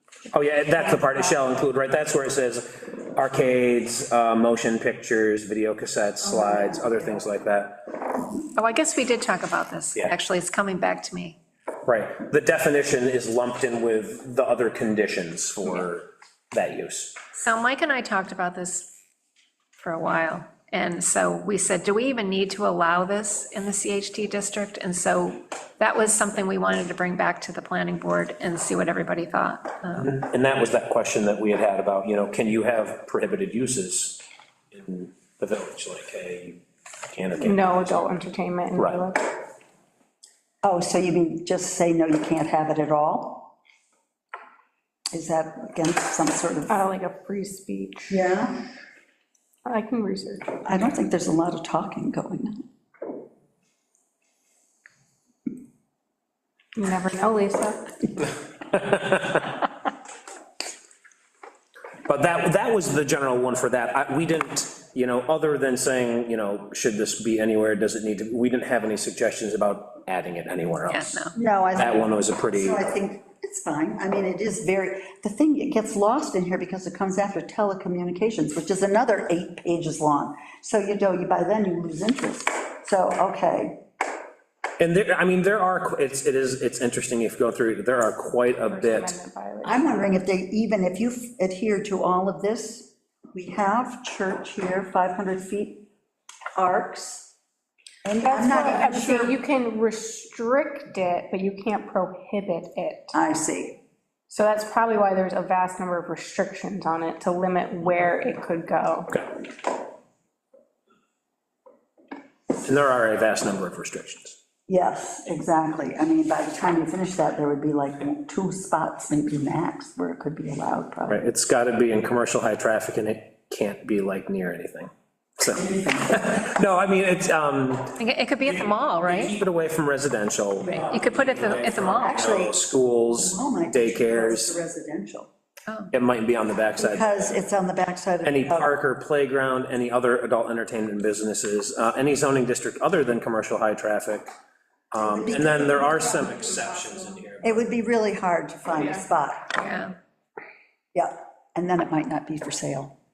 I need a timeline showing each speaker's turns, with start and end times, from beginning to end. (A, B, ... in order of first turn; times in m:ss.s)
0:00.3-0:08.0 A
0:00.8-0:01.3 B
0:06.5-0:06.8 C
0:08.5-0:11.4 C
0:11.8-0:17.2 A
0:17.3-0:18.9 C
0:19.8-0:30.1 C
0:30.0-0:38.2 A
0:37.4-0:39.2 B
0:38.8-0:39.0 A
0:40.6-0:43.5 D
0:45.1-0:46.8 D
0:46.7-0:48.2 B
0:48.1-0:48.7 D
0:49.6-0:50.5 B
0:50.6-0:52.6 D
0:56.7-0:57.9 B
0:58.7-0:59.6 A
1:02.0-1:12.9 A
1:10.8-1:11.3 C
1:11.3-1:23.8 D
1:24.8-1:29.1 A
1:28.7-1:30.2 B
1:29.6-1:35.8 D
1:36.6-1:37.3 D
1:38.0-1:39.4 D
1:38.2-1:43.1 B
1:43.1-1:43.8 D
1:44.3-1:49.2 B
1:52.6-1:54.4 A
1:54.7-2:01.2 D
2:01.0-2:14.5 A
2:05.5-2:06.4 D
2:08.0-2:09.4 C
2:10.7-2:12.3 C
2:12.0-2:12.6 D
2:13.1-2:15.3 D
2:15.7-2:15.9 C
2:15.9-2:17.4 A
2:16.8-2:18.7 D
2:18.2-2:24.3 A
2:24.9-2:27.8 A
2:25.0-2:26.5 D
2:27.4-2:29.6 D
2:29.5-2:29.9 C
2:30.9-2:33.0 D